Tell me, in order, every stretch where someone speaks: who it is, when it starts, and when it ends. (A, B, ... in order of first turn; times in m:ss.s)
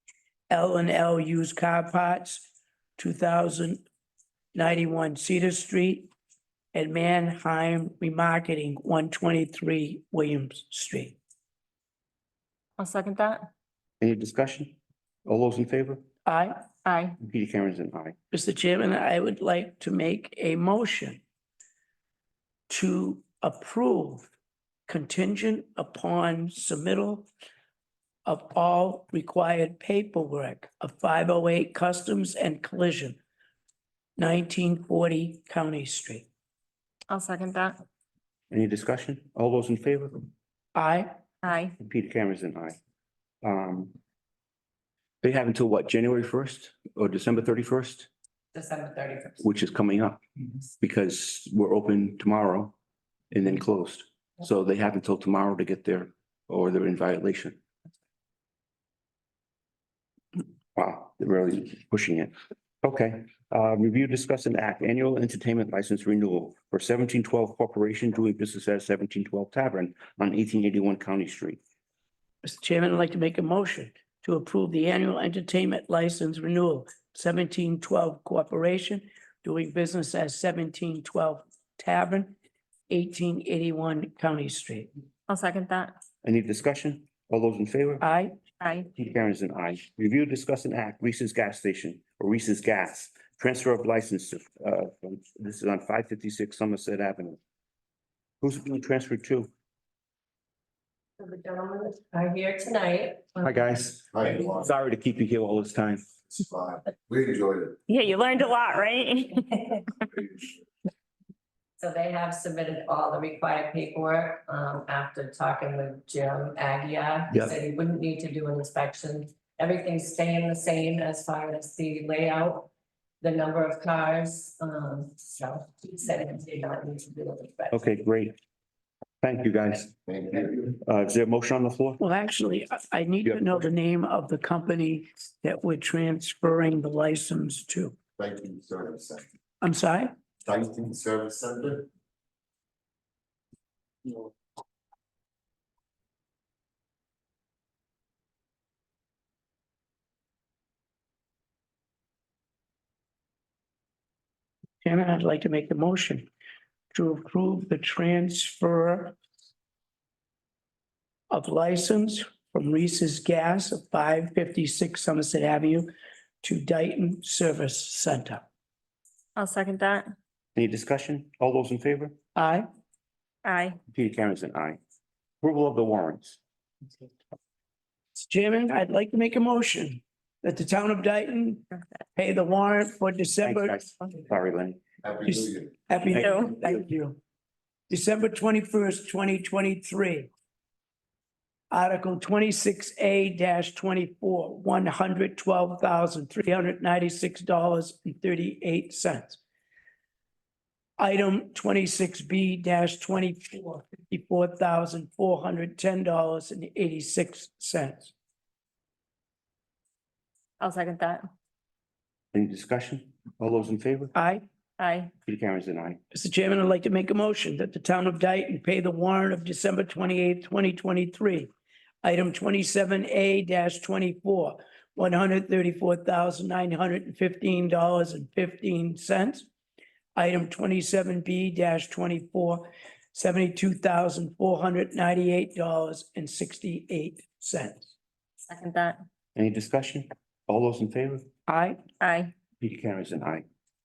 0:00.5-0:02.4 A
0:03.0-0:03.8 A
0:04.5-0:06.1 A
0:06.7-0:11.2 A
0:12.8-0:13.5 B
0:14.0-0:16.0 C
0:16.2-0:16.6 A
0:16.8-0:17.2 B
0:17.2-0:18.1 C
0:18.3-0:21.2 A
0:22.7-0:24.3 A
0:24.9-0:27.3 A
0:28.2-0:33.2 A
0:34.2-0:36.3 A
0:37.1-0:37.8 B
0:38.5-0:40.3 C
0:40.7-0:41.1 A
0:41.4-0:41.7 B
0:41.8-0:42.8 C
0:43.4-0:43.9 C
0:45.2-0:48.1 C
0:48.5-0:49.4 D
0:49.4-0:50.2 C
0:50.8-0:52.7 C
0:53.3-0:57.6 C
1:00.7-1:11.6 C
1:12.4-1:22.4 A
1:22.9-1:24.9 A
1:25.3-1:26.0 B
1:26.2-1:28.0 C
1:28.0-1:28.3 A
1:28.6-1:28.9 B
1:28.9-1:37.4 C
1:38.4-1:39.5 C
1:41.2-1:43.6 D
1:43.4-1:46.1 C
1:44.1-1:44.7 E
1:46.3-1:47.8 E
1:47.9-1:49.4 B
1:50.1-1:50.5 E
1:51.8-2:02.7 D
1:57.3-1:57.5 C
2:03.2-2:07.8 D
2:07.7-2:08.3 C
2:09.2-2:09.9 C
2:10.1-2:10.7 E
2:10.7-2:12.0 C
2:12.0-2:18.0 A
2:13.2-2:13.6 C
2:18.2-2:19.2 E
2:19.6-2:20.1 A
2:20.4-2:21.9 E
2:34.8-2:36.3 A
2:36.9-2:39.2 A
2:41.3-2:45.9 A
2:46.4-2:48.4 A
2:49.4-2:50.1 B
2:50.5-2:52.1 C
2:52.3-2:52.6 A
2:53.4-2:53.8 B
2:53.9-2:54.8 C
2:55.4-2:56.4 C
2:58.2-3:03.8 A
3:03.4-3:04.8 C
3:05.0-3:05.7 E
3:05.9-3:07.2 A
3:06.1-3:06.4 C
3:06.2-3:06.5 B
3:07.9-3:10.3 A
3:11.7-3:19.4 A
3:21.0-3:28.1 A
3:30.6-3:31.2 B
3:32.3-3:34.1 C
3:34.1-3:34.4 A
3:34.8-3:35.1 B
3:35.2-3:36.0 C
3:36.1-3:41.5 A
3:42.0-3:49.4 A
3:50.2-3:57.9 A
3:58.5-3:59.0 B
3:59.3-4:01.3 C
4:01.5-4:01.8 A
4:02.0-4:02.3 B
4:02.6-4:03.4 C